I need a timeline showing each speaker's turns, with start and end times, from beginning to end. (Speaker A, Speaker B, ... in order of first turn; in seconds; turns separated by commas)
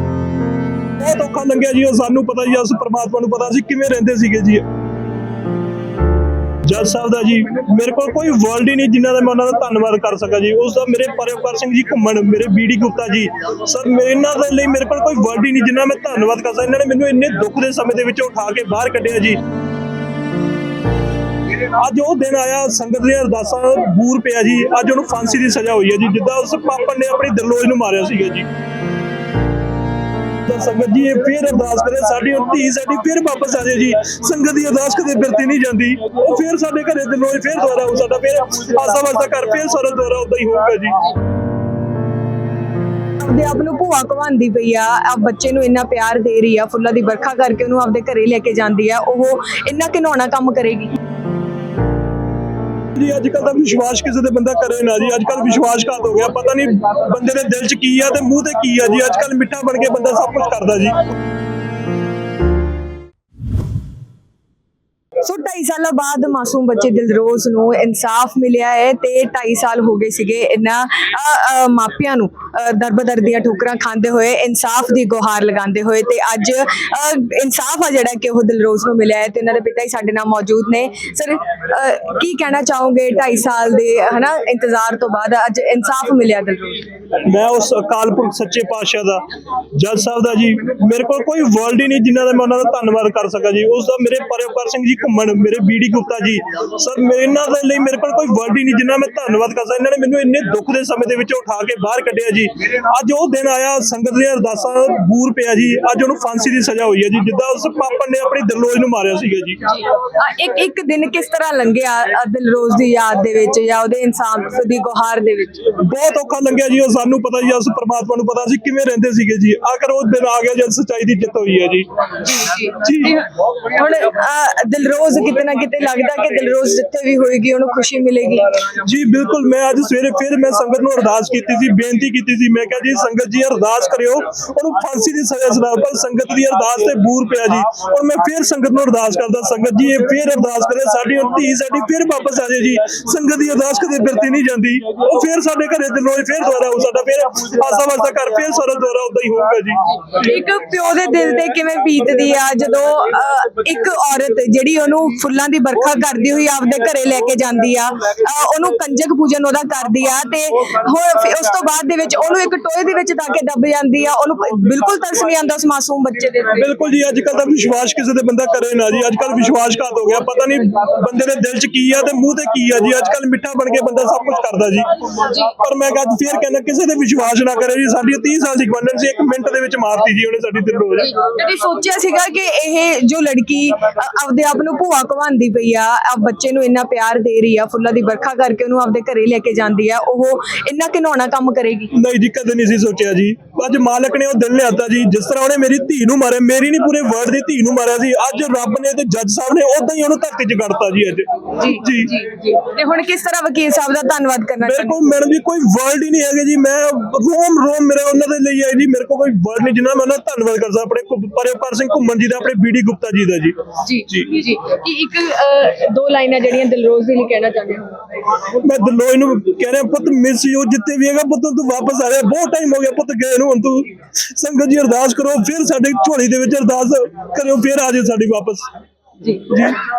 Speaker A: 1.0-4.6, Speaker A: 6.6-19.4, Speaker A: 21.5-28.5, Speaker A: 30.4-41.0, Speaker B: 43.2-50.9, Speaker A: 52.9-61.0, Speaker B: 65.2-86.9, Speaker A: 87.2-109.6, Speaker B: 109.7-115.7, Speaker A: 115.8-122.1, Speaker B: 122.2-128.7, Speaker A: 122.6-123.2, Speaker A: 128.7-149.9, Speaker B: 150.1-166.7, Speaker A: 166.5-181.1, Speaker B: 181.0-191.9, Speaker A: 191.9-202.1, Speaker B: 201.6-205.1, Speaker A: 204.6-214.3, Speaker B: 213.8-218.0, Speaker A: 218.5-228.7, Speaker B: 229.2-229.7, Speaker A: 229.5-229.8